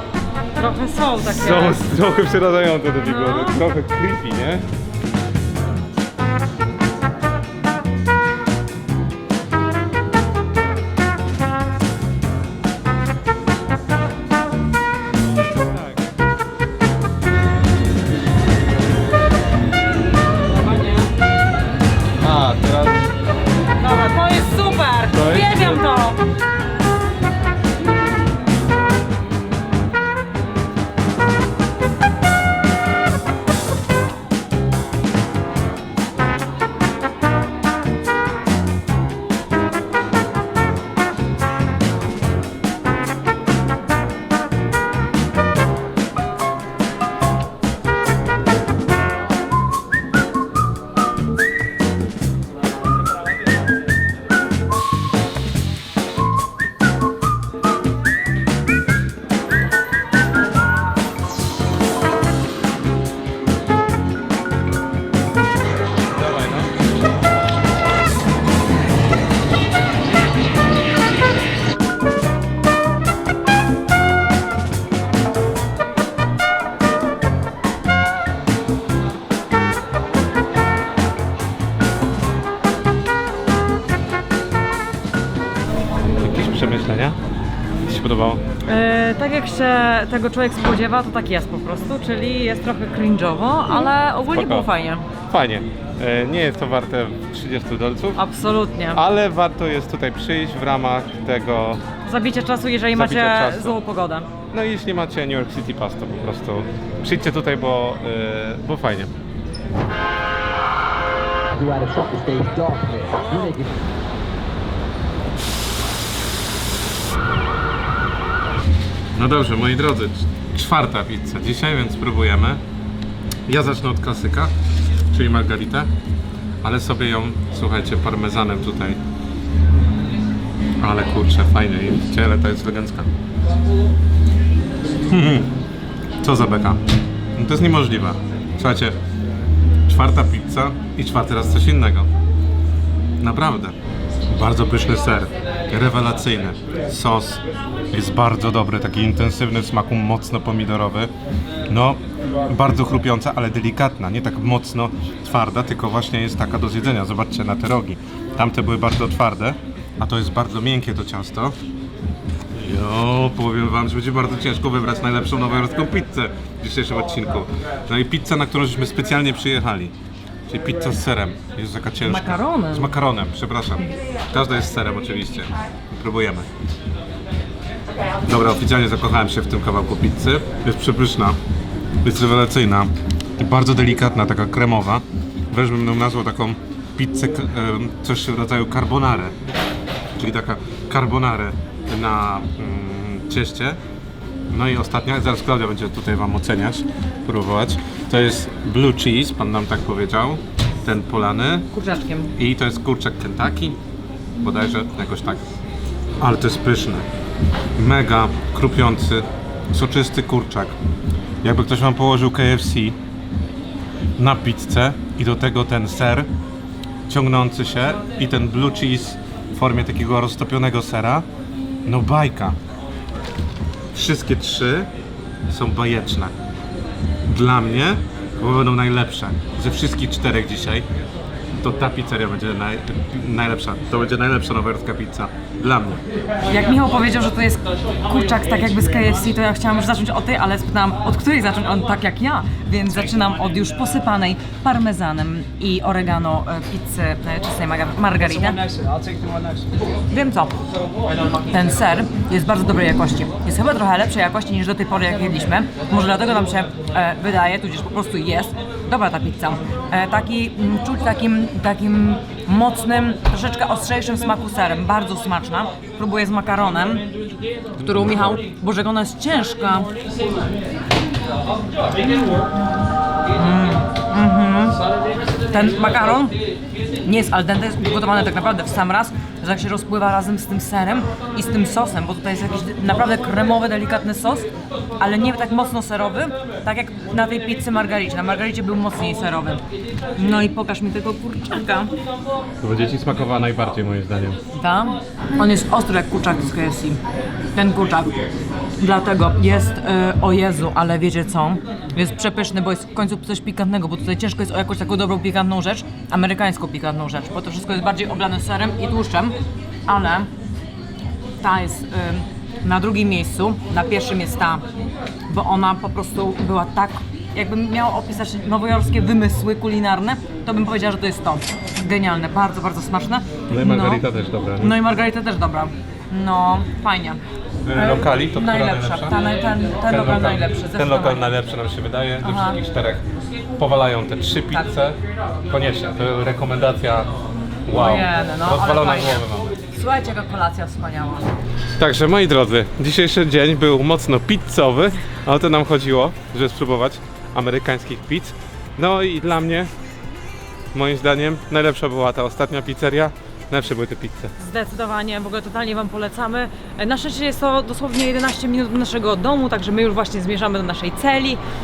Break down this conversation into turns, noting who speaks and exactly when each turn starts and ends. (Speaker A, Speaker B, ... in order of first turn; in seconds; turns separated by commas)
Speaker A: 0.6-1.9, Speaker B: 1.2-4.7, Speaker A: 3.0-3.6, Speaker B: 22.2-23.1, Speaker A: 23.8-26.2, Speaker B: 25.1-25.8, Speaker B: 66.1-66.7, Speaker B: 86.2-87.2, Speaker B: 87.9-88.4, Speaker A: 88.7-95.1, Speaker B: 94.3-94.7, Speaker B: 95.3-98.2, Speaker A: 98.2-99.0, Speaker B: 98.9-101.8, Speaker A: 102.0-104.3, Speaker B: 102.9-103.8, Speaker B: 104.5-109.1, Speaker C: 111.5-113.7, Speaker B: 119.2-122.6, Speaker B: 123.5-124.5, Speaker B: 125.1-125.9, Speaker B: 126.6-129.0, Speaker B: 130.8-133.1, Speaker B: 135.1-135.5, Speaker B: 136.2-136.8, Speaker B: 137.4-139.0, Speaker B: 139.9-142.1, Speaker B: 143.2-143.8, Speaker B: 144.3-151.1, Speaker B: 151.7-161.6, Speaker B: 162.6-169.9, Speaker B: 170.5-176.5, Speaker A: 172.0-172.9, Speaker B: 178.3-181.4, Speaker B: 182.0-189.4, Speaker B: 190.2-193.8, Speaker B: 194.5-201.7, Speaker A: 201.7-202.3, Speaker B: 202.4-203.8, Speaker B: 204.4-205.5, Speaker B: 206.2-207.1, Speaker B: 207.8-210.8, Speaker B: 211.4-213.0, Speaker B: 214.2-216.3, Speaker B: 217.1-221.3, Speaker B: 221.9-222.6, Speaker B: 223.9-224.9, Speaker B: 225.5-226.3, Speaker B: 227.3-230.9, Speaker B: 231.6-236.0, Speaker A: 236.5-248.8, Speaker A: 250.1-250.6, Speaker A: 251.4-267.1, Speaker A: 267.8-269.9, Speaker B: 267.8-268.4, Speaker A: 272.1-272.4, Speaker A: 273.3-274.8, Speaker A: 275.5-276.4, Speaker A: 277.0-289.6, Speaker A: 290.2-291.9, Speaker B: 292.6-294.4, Speaker A: 294.5-297.0, Speaker A: 297.6-298.2, Speaker A: 298.8-309.4, Speaker A: 309.9-310.3, Speaker A: 311.4-314.6, Speaker A: 315.3-324.1, Speaker B: 323.5-324.8, Speaker A: 324.6-327.2, Speaker B: 327.7-329.2, Speaker A: 327.7-331.3, Speaker B: 329.9-337.1, Speaker A: 332.2-332.6, Speaker B: 337.7-339.5, Speaker A: 337.7-341.3, Speaker B: 341.8-349.7, Speaker B: 350.7-354.3, Speaker A: 354.4-361.4